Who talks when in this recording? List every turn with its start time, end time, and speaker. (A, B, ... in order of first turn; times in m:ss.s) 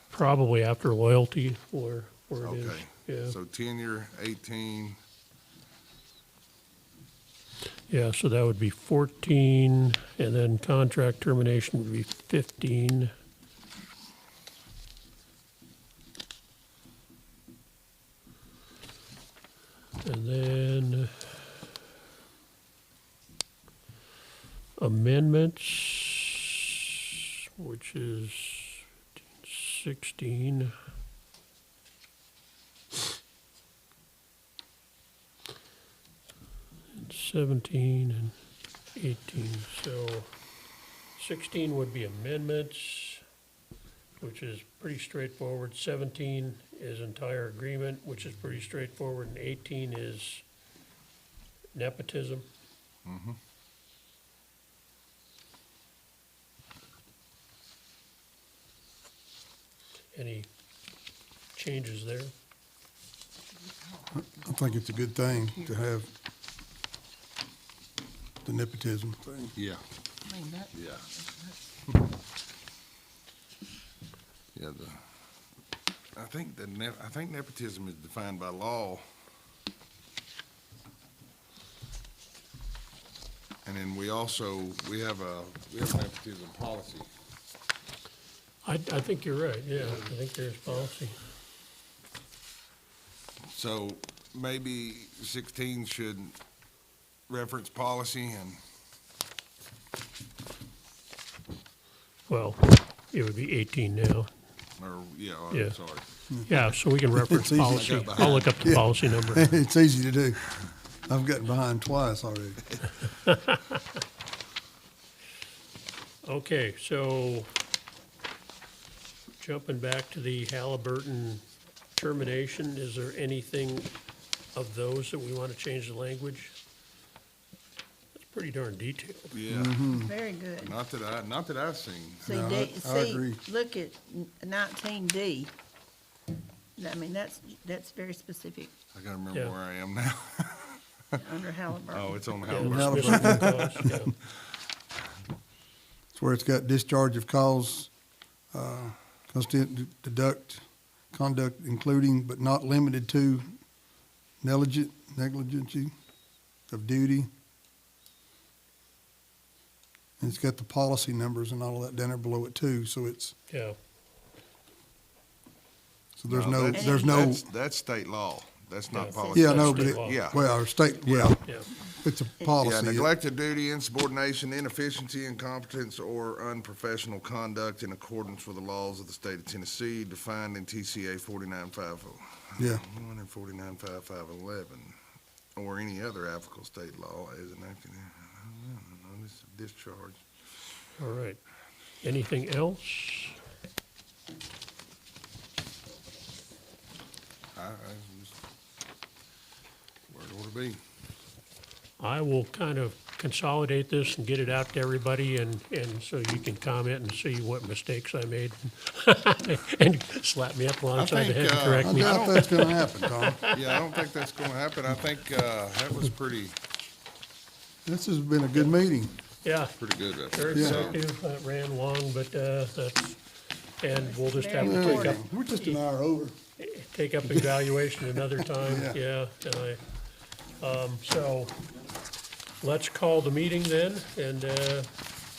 0:00.1-0:03.4 A
0:02.4-0:05.0 B
0:07.9-0:13.1 A
0:20.0-0:21.3 A
0:24.8-0:26.5 A
0:27.6-0:28.8 A
0:29.4-0:30.7 A
0:37.0-0:38.3 A
0:39.0-0:40.3 A
0:41.2-0:43.2 A
0:44.2-0:50.4 A
0:51.8-0:52.4 A
0:53.1-0:53.4 B
1:00.1-1:00.5 A
1:01.6-1:02.3 A
1:04.2-1:06.1 C
1:08.4-1:09.6 C
1:09.6-1:09.8 B
1:10.3-1:10.6 D
1:10.7-1:11.1 B
1:14.5-1:15.0 B
1:16.2-1:19.0 B
1:23.6-1:27.1 B
1:28.6-1:31.2 A
1:29.8-1:30.1 B
1:33.5-1:36.4 B
1:37.3-1:38.6 B
1:42.3-1:44.3 A
1:44.8-1:46.0 B
1:45.5-1:45.8 A
1:46.3-1:46.6 C
1:46.5-1:49.5 A
1:47.1-1:52.6 C
1:47.7-1:48.6 B
1:53.3-1:53.6 A
1:56.2-1:57.5 A
1:59.4-2:01.4 A
2:01.9-2:03.9 A
2:04.6-2:06.6 A
2:08.2-2:09.3 A
2:09.3-2:09.8 B
2:09.5-2:10.1 C
2:10.0-2:10.8 D
2:10.6-2:12.4 B
2:12.2-2:15.5 D
2:12.3-2:13.4 C
2:16.8-2:18.7 D
2:18.9-2:21.2 B
2:21.2-2:22.8 D
2:21.9-2:24.2 B
2:22.5-2:24.1 A
2:22.6-2:24.1 C
2:26.1-2:27.9 C
2:28.5-2:33.5 C
2:34.4-2:35.9 C
2:36.7-2:37.3 C
2:40.2-2:43.4 C
2:43.5-2:43.8 A
2:46.2-2:47.5 C
2:46.3-2:50.4 B
2:46.7-2:47.3 D
2:48.9-2:50.4 A
2:49.1-2:49.7 D
2:49.3-2:51.4 C
2:51.0-2:51.4 B
2:51.4-2:51.7 A
2:52.0-2:53.1 C
2:52.6-3:05.0 B
3:02.6-3:02.8 C
3:05.6-3:10.2 B
3:11.0-3:11.4 A
3:12.0-3:13.4 A
3:17.6-3:18.3 B
3:20.1-3:20.8 B
3:22.0-3:33.6 A
3:30.9-3:32.5 B
3:31.8-3:33.4 C
3:33.5-3:36.6 B
3:37.8-3:39.2 C
3:39.4-3:43.2 A
3:39.8-3:41.0 B
3:40.5-3:40.9 C
3:43.8-3:45.8 A
3:43.9-3:45.2 D
3:44.6-3:46.4 C
3:46.6-3:49.8 A
3:47.2-3:47.6 C
3:48.2-3:49.0 C
3:50.6-3:51.5 A
3:52.6-3:54.9 A